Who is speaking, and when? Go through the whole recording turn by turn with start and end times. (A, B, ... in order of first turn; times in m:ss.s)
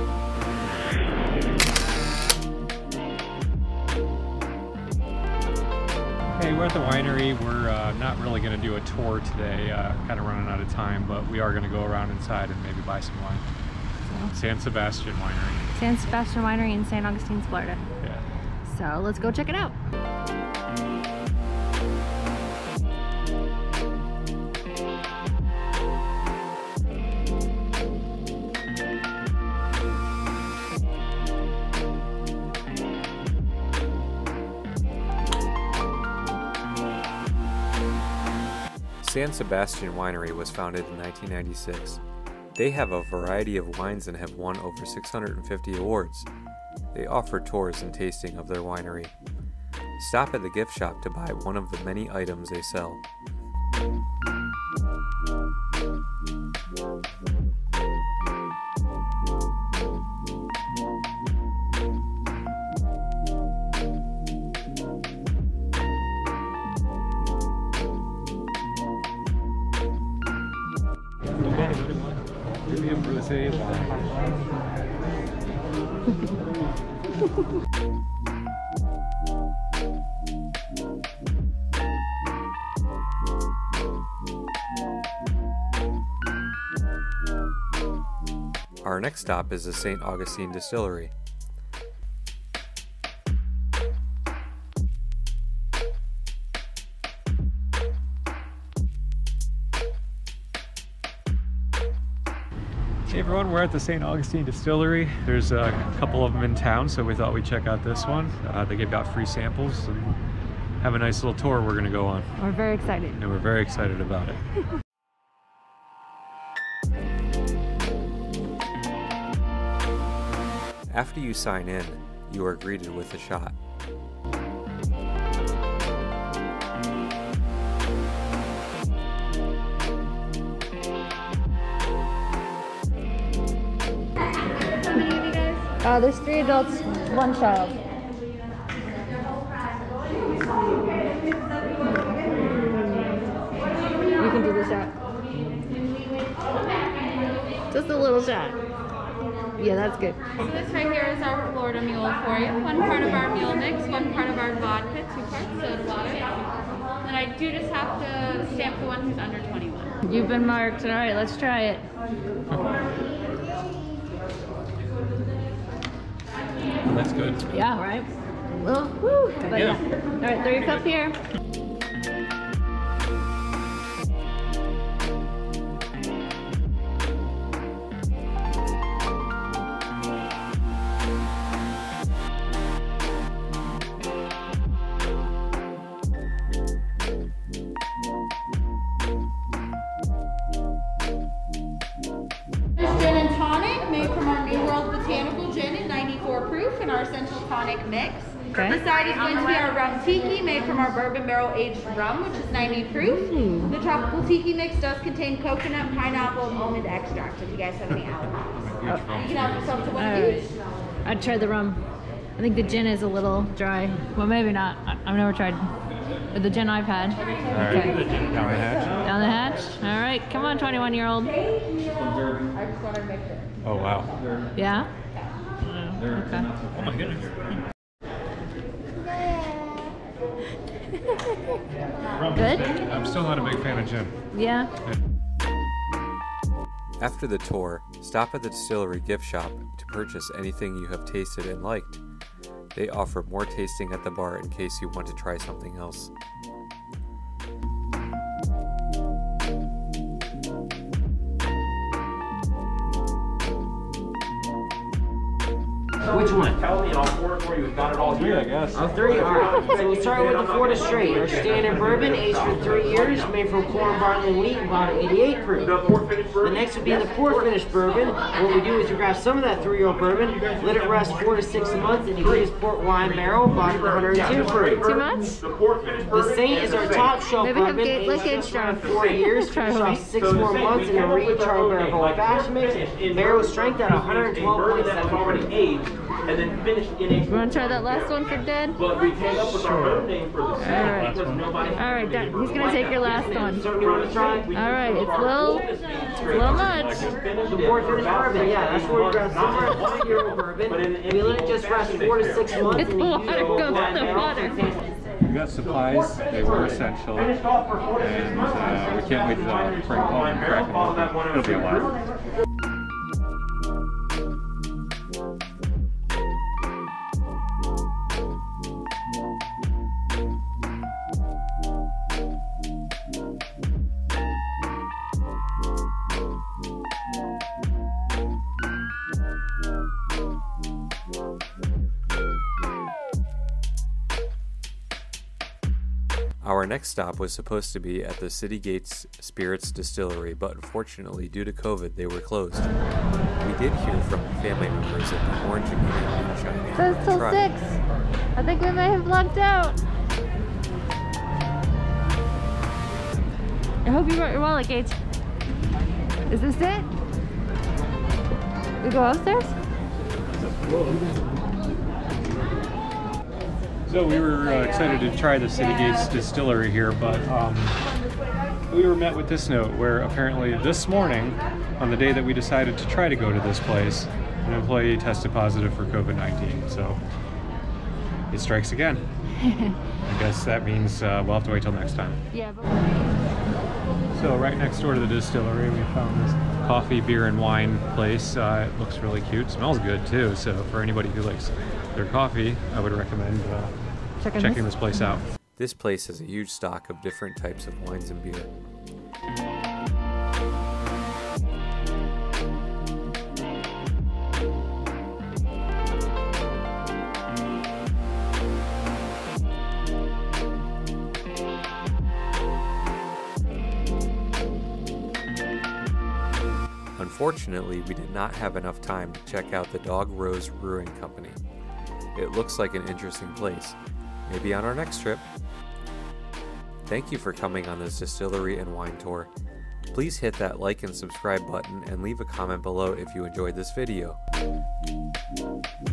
0:06.4-0:13.4 A
0:14.1-0:14.3 B
0:14.3-0:15.7 A
0:15.7-0:17.8 B
0:18.7-0:19.8 B
0:39.0-0:42.0 C
0:42.6-0:46.3 C
0:46.9-0:49.1 C
0:50.0-0:53.0 C
1:11.4-1:12.0 A
1:12.7-1:14.1 A
1:28.8-1:31.1 C
1:43.1-1:50.2 A
1:50.8-1:52.3 A
1:52.4-1:53.2 B
1:53.1-1:54.4 A
2:00.9-2:03.6 C
2:14.8-2:15.8 D
2:15.8-2:17.8 B
2:22.8-2:23.2 B
2:24.2-2:24.9 B
2:27.7-2:28.6 B
2:29.6-2:30.2 B
2:30.4-2:36.4 D
2:37.0-2:40.0 D
2:40.0-2:41.8 B
2:46.8-2:47.2 A
2:47.5-2:48.1 B
2:48.6-2:51.2 B
3:12.8-3:30.5 D
3:18.5-3:18.8 B
3:23.3-3:23.7 B
3:28.5-3:29.7 A
3:28.8-3:29.2 B
3:29.9-3:30.4 B
3:31.0-3:31.8 B
3:32.4-3:35.7 B
3:36.3-3:38.1 B
3:37.5-3:39.0 A
3:38.9-3:41.4 B
3:42.6-3:43.4 D
3:43.6-3:44.1 A
3:44.5-3:44.9 B
3:45.6-3:46.6 B
3:46.7-3:47.3 A
3:49.3-3:49.8 B
3:50.9-3:51.5 B
3:52.2-3:54.2 A
3:52.4-3:52.7 B
3:54.3-3:54.7 B
3:57.0-4:02.0 C
4:02.7-4:06.1 C
4:16.1-4:16.6 E
4:16.7-4:18.4 F
4:18.1-4:18.8 A
4:18.7-4:25.7 E
4:25.9-4:26.3 F
4:26.4-4:34.9 E
4:34.8-4:35.4 B
4:35.6-4:36.0 F
4:36.1-4:45.5 E
4:37.4-4:40.1 B
4:44.5-4:47.2 F
4:47.3-4:48.9 B
4:48.8-4:51.6 F
4:49.5-4:50.0 A
4:50.6-4:53.7 B
4:50.8-4:51.5 A
4:52.5-4:52.8 F
4:53.0-4:54.5 E
4:54.5-4:56.0 F
4:54.5-4:57.2 B
4:56.6-4:57.1 A
4:57.1-4:57.3 F
4:57.4-5:04.8 E
5:02.8-5:04.6 B
5:05.2-5:07.4 A
5:07.7-5:09.0 F
5:07.9-5:11.9 A
5:09.9-5:10.2 F
5:36.4-5:42.7 C
5:43.4-5:47.4 C
5:46.7-5:47.8 B
5:48.4-5:49.8 B
5:53.8-5:54.9 B
5:56.3-5:56.9 B
5:58.8-5:59.5 B
6:03.9-6:07.8 A
6:08.7-6:17.0 A
6:18.3-6:19.0 A
6:20.0-6:22.2 A
6:22.3-6:22.6 B
6:24.1-6:33.7 A
6:34.2-6:35.2 B
6:34.3-6:35.2 A
6:35.6-6:38.5 C
6:57.0-7:01.4 C
7:02.1-7:05.3 C
7:06.8-7:09.3 C
7:09.9-7:14.2 C